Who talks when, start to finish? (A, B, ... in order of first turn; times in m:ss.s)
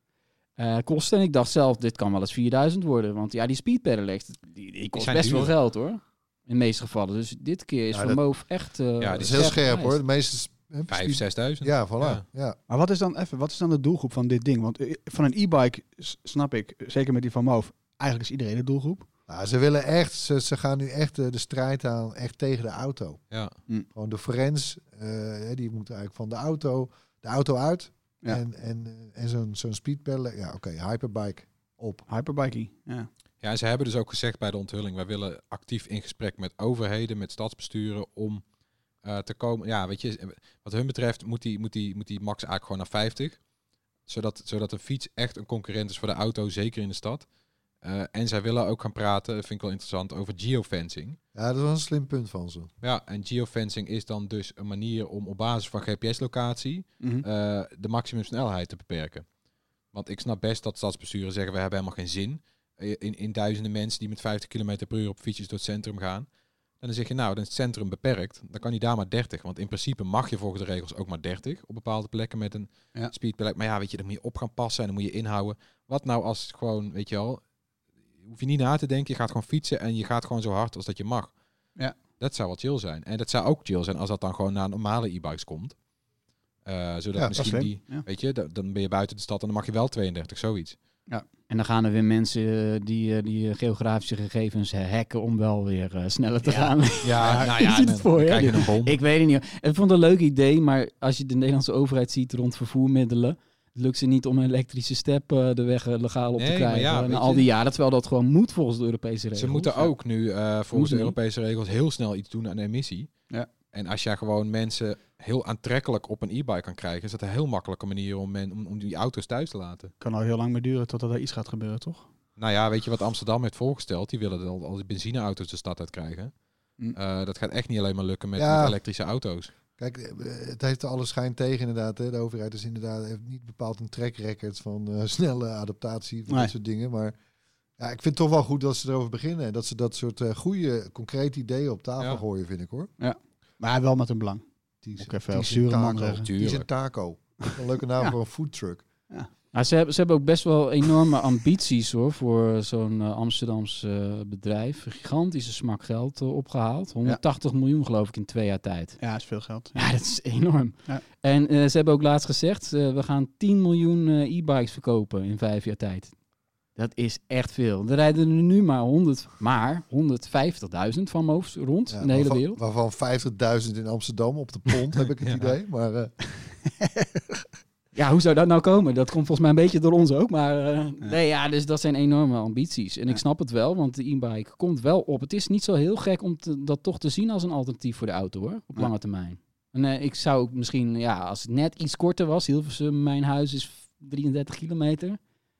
0:00.6-0:10.0 A
0:05.0-0:05.5 B
0:07.9-0:08.6 C
0:09.0-0:09.6 B
0:09.2-0:12.6 C
0:10.9-0:12.2 B
0:12.7-0:19.0 D
0:19.3-0:32.0 C
0:23.3-0:23.6 B
0:32.1-0:33.1 D
0:33.4-0:38.4 B
0:39.0-0:43.4 B
0:44.0-0:47.3 B
0:47.8-0:51.2 B
0:51.3-0:52.7 C
0:52.8-0:59.3 B
0:57.0-0:57.2 D
0:59.9-1:17.4 B
1:18.2-1:21.4 B
1:22.0-1:25.8 B
1:26.6-1:30.8 B
1:27.3-1:28.0 D
1:31.5-1:49.9 A
1:36.4-1:37.5 D
1:37.0-1:39.0 B
1:46.4-1:47.4 B
1:49.4-1:59.9 B
1:50.7-1:51.1 A
2:00.0-2:02.1 D
2:02.4-2:09.5 B
2:08.4-2:08.8 C
2:09.8-2:17.1 C
2:17.8-2:22.9 C
2:23.0-2:26.2 D
2:24.8-2:28.8 C
2:26.2-2:26.7 B
2:29.5-2:39.0 A
2:39.0-2:40.0 D
2:39.7-2:46.2 A
2:46.7-2:52.6 A
2:51.9-2:56.2 C
2:55.2-2:55.5 B
2:57.9-3:15.2 A